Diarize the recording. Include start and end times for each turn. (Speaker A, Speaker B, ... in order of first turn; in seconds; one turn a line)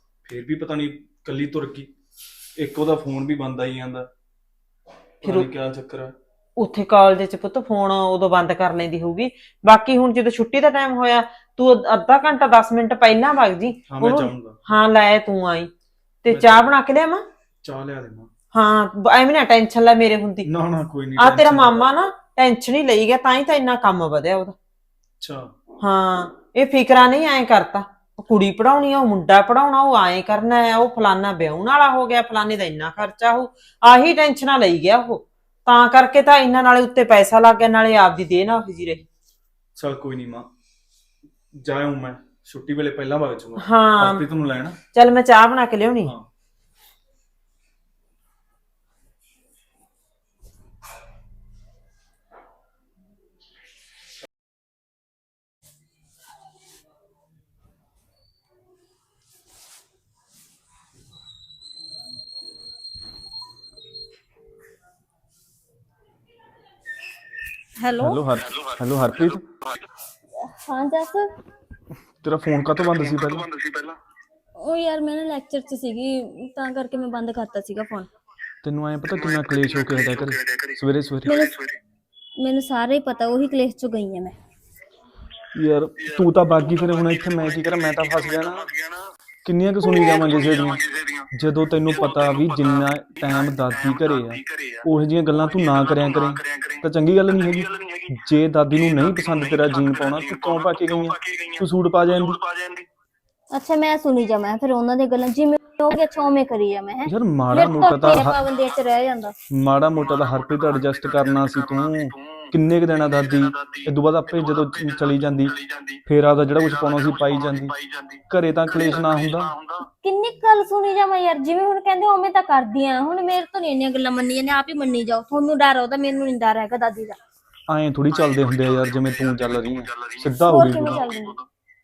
Speaker A: 0.2-1.9
Speaker A: 2.6-4.1
Speaker A: 5.2-6.2
Speaker B: 5.2-5.5
Speaker B: 6.6-15.7
Speaker A: 13.9-14.6
Speaker B: 16.2-17.2
Speaker A: 16.3-16.8
Speaker A: 17.6-18.3
Speaker B: 18.5-20.5
Speaker A: 20.4-21.9
Speaker B: 21.2-24.6
Speaker A: 25.2-25.5
Speaker B: 25.8-39.0
Speaker A: 39.8-40.5
Speaker A: 41.6-44.8
Speaker B: 43.6-44.3
Speaker B: 44.9-46.1
Speaker C: 67.8-68.2
Speaker A: 68.0-69.5
Speaker C: 70.4-71.3
Speaker A: 72.2-73.6
Speaker C: 74.6-78.1
Speaker A: 78.6-81.4
Speaker C: 81.2-81.6
Speaker C: 82.4-84.4
Speaker A: 85.5-88.8
Speaker A: 89.5-102.5
Speaker C: 103.5-109.3
Speaker A: 107.1-108.4
Speaker A: 109.5-119.6
Speaker C: 120.0-127.2
Speaker A: 127.7-131.1
Speaker C: 130.4-131.4